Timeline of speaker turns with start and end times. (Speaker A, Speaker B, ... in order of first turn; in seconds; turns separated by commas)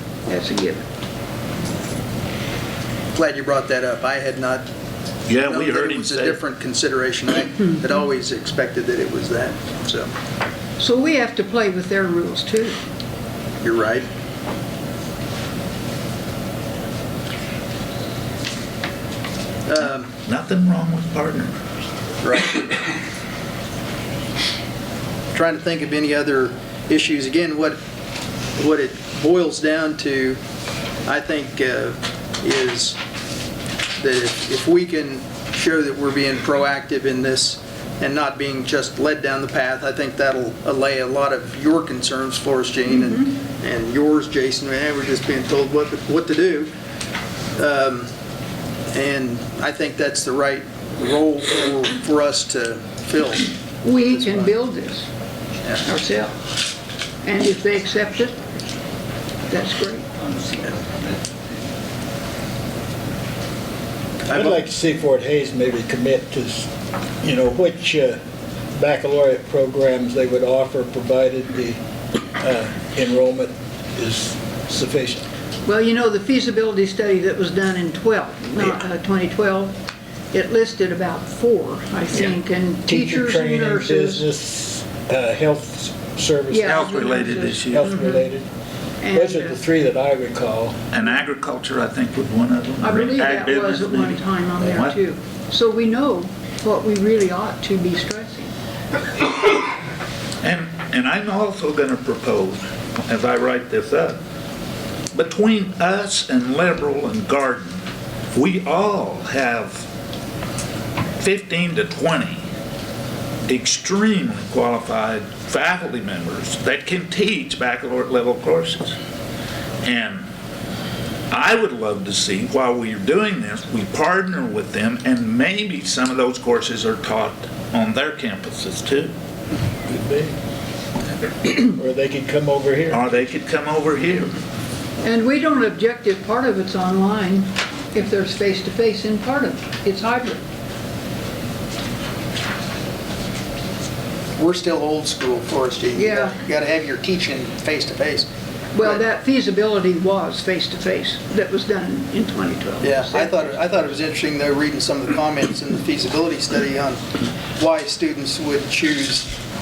Speaker A: 0.3-0.9, Speaker B: 3.1-4.7, Speaker C: 5.3-6.4, Speaker B: 5.4-10.1, Speaker A: 10.8-12.8, Speaker B: 13.6-14.1, Speaker B: 19.6-20.1, Speaker C: 19.8-21.6, Speaker B: 22.2-22.8, Speaker B: 25.3-27.8, Speaker B: 28.6-30.4, Speaker B: 31.0-33.0, Speaker B: 34.0-46.7, Speaker A: 42.9-43.2, Speaker B: 47.6-48.1, Speaker B: 48.9-53.5, Speaker A: 53.8-55.1, Speaker B: 54.1-54.5, Speaker A: 55.8-56.3, Speaker A: 57.2-58.4, Speaker A: 59.5-60.2, Speaker B: 64.3-64.6, Speaker D: 64.3-66.7, Speaker D: 67.2-68.2, Speaker D: 68.8-71.8, Speaker D: 72.4-75.2, Speaker A: 75.6-79.7, Speaker A: 80.3-84.2, Speaker D: 82.9-86.9, Speaker A: 86.5-88.2, Speaker C: 86.7-87.8, Speaker D: 87.7-88.5, Speaker A: 89.0-89.6, Speaker D: 89.1-90.8, Speaker C: 90.9-95.0, Speaker A: 92.8-98.5, Speaker C: 100.4-104.2, Speaker C: 105.1-109.8, Speaker C: 111.2-112.4, Speaker C: 113.5-118.9, Speaker C: 119.8-120.2, Speaker C: 121.3-129.1, Speaker D: 129.9-130.3, Speaker D: 131.4-133.1, Speaker C: 132.9-134.3, Speaker A: 135.0-140.4, Speaker B: 144.4-148.3, Speaker A: 145.9-146.3, Speaker A: 148.7-153.5, Speaker B: 152.8-157.0, Speaker B: 157.6-159.3